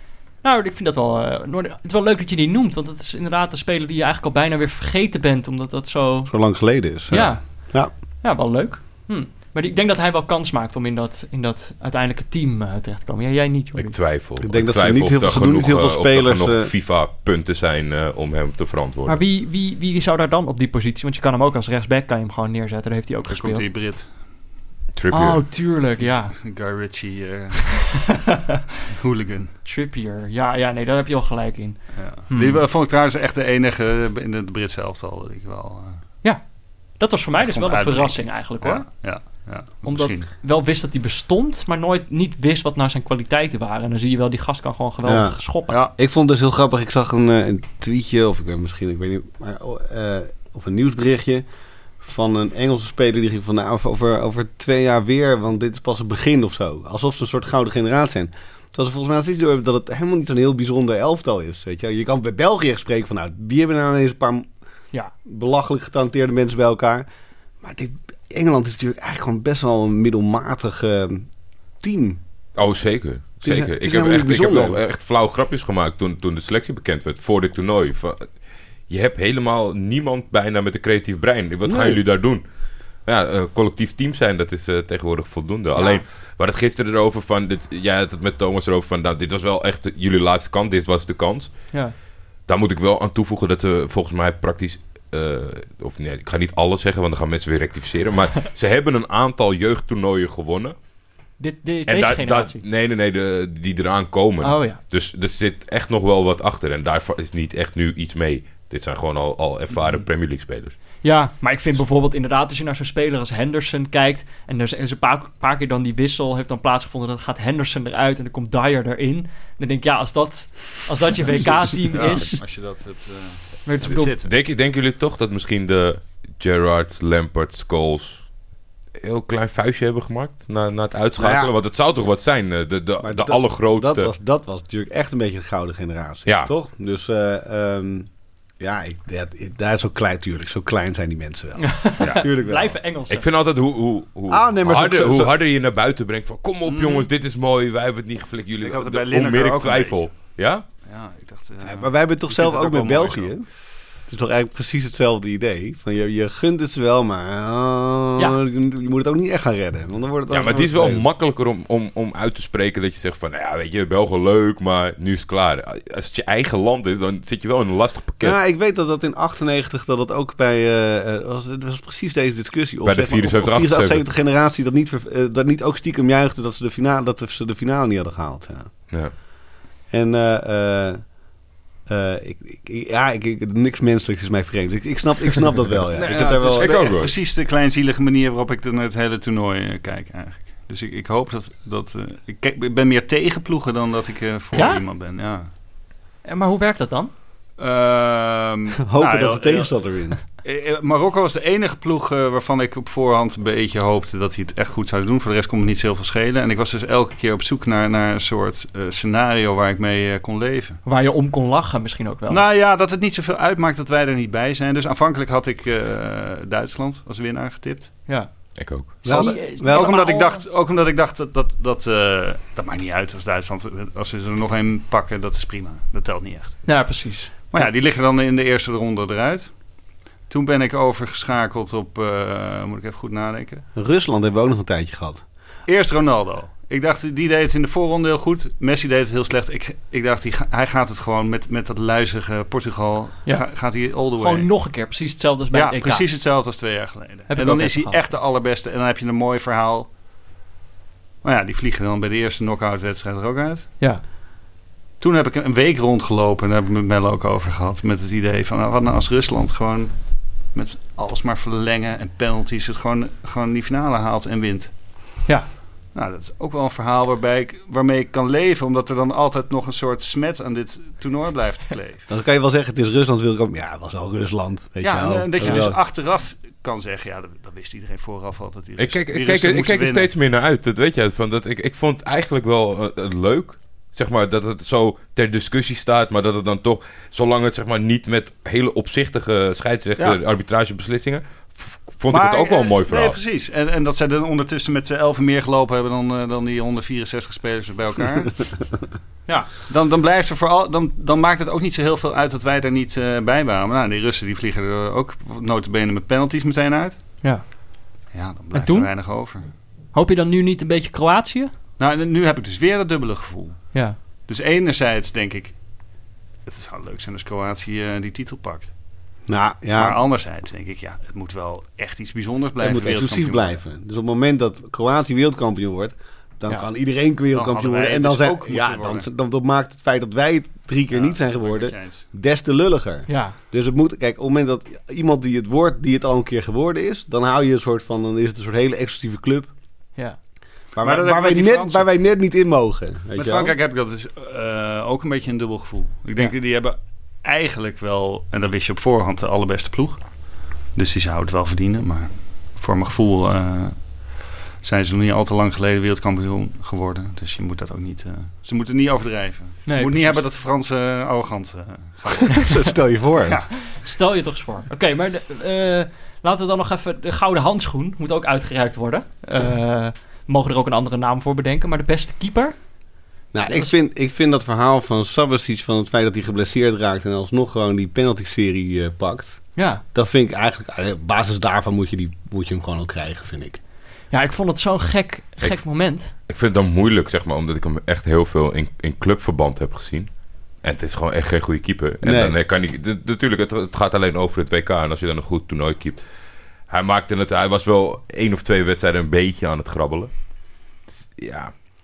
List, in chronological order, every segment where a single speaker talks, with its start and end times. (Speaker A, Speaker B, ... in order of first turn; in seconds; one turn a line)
Speaker A: 0.4-6.3
Speaker B: 6.3-7.9
Speaker A: 7.1-14.0
Speaker C: 13.8-19.2
Speaker B: 14.4-16.7
Speaker A: 19.1-23.7
Speaker D: 23.3-24.1
Speaker C: 24.9-25.4
Speaker A: 25.1-26.4
Speaker D: 26.3-28.0
Speaker A: 28.1-28.6
Speaker D: 28.9-29.5
Speaker A: 29.6-32.6
Speaker D: 31.9-36.0
Speaker A: 37.0-38.9
Speaker D: 37.4-40.3
Speaker A: 39.8-45.8
Speaker B: 45.0-45.4
Speaker B: 46.0-51.4
Speaker B: 52.0-64.5
Speaker B: 65.3-67.1
Speaker B: 67.6-71.3
Speaker B: 71.8-72.2
Speaker C: 72.6-78.3
Speaker B: 73.4-74.8
Speaker C: 78.9-82.4
Speaker B: 81.6-82.0
Speaker C: 83.0-91.5
Speaker A: 85.8-86.0
Speaker C: 92.5-100.8
Speaker A: 101.4-102.6
Speaker C: 101.9-110.8
Speaker A: 104.4-104.8
Speaker A: 111.0-122.4
Speaker D: 121.8-124.3
Speaker A: 123.7-124.2
Speaker C: 123.9-128.2
Speaker C: 129.0-134.1
Speaker B: 131.2-131.5
Speaker B: 133.0-142.8
Speaker C: 136.3-136.5
Speaker A: 141.6-143.3
Speaker C: 142.0-142.2
Speaker C: 143.1-150.6
Speaker B: 144.3-145.3
Speaker D: 146.7-147.1
Speaker D: 148.6-150.2
Speaker D: 150.8-153.4
Speaker B: 151.6-153.5
Speaker B: 154.1-161.1
Speaker C: 160.3-168.4
Speaker B: 168.2-178.7
Speaker C: 172.8-174.0
Speaker B: 179.9-181.1
Speaker B: 181.9-186.9
Speaker C: 185.9-187.1
Speaker D: 186.0-195.5
Speaker A: 194.5-194.8
Speaker A: 196.2-197.1
Speaker D: 197.6-199.7
Speaker B: 198.8-200.2
Speaker D: 200.4-210.8
Speaker A: 210.8-212.4
Speaker D: 212.3-217.9
Speaker C: 218.6-218.9
Speaker A: 218.9-220.4
Speaker B: 219.0-219.9
Speaker D: 219.2-226.7
Speaker A: 226.7-227.3
Speaker D: 227.5-229.5
Speaker D: 230.3-233.6
Speaker B: 233.8-235.2
Speaker D: 235.7-244.5
Speaker A: 243.3-243.5
Speaker A: 244.2-246.1
Speaker D: 245.5-249.9
Speaker A: 247.3-248.0
Speaker D: 251.2-253.7
Speaker D: 255.0-259.9
Speaker D: 260.5-264.7
Speaker D: 265.9-272.1
Speaker B: 272.1-275.8
Speaker D: 274.8-280.1
Speaker C: 278.8-293.2
Speaker D: 292.1-298.5
Speaker D: 299.7-307.0
Speaker D: 308.1-309.5
Speaker A: 308.5-308.9
Speaker A: 309.9-311.5
Speaker D: 311.8-313.8
Speaker D: 314.3-315.6
Speaker D: 316.5-318.7
Speaker B: 319.3-320.0
Speaker D: 319.8-323.6
Speaker B: 322.6-339.5
Speaker D: 327.3-329.1
Speaker D: 330.9-332.1
Speaker A: 333.1-333.4
Speaker B: 340.7-343.6
Speaker D: 340.8-341.9
Speaker D: 343.1-350.0
Speaker D: 350.8-353.9
Speaker D: 354.6-362.5
Speaker A: 359.7-360.2
Speaker B: 362.4-363.4
Speaker A: 363.6-372.6
Speaker B: 373.3-379.4
Speaker A: 373.5-373.7
Speaker A: 379.6-379.8
Speaker B: 379.9-383.6
Speaker A: 384.1-386.1
Speaker C: 386.3-390.1
Speaker C: 390.6-396.0
Speaker B: 392.0-392.4
Speaker C: 396.7-400.1
Speaker C: 400.9-401.5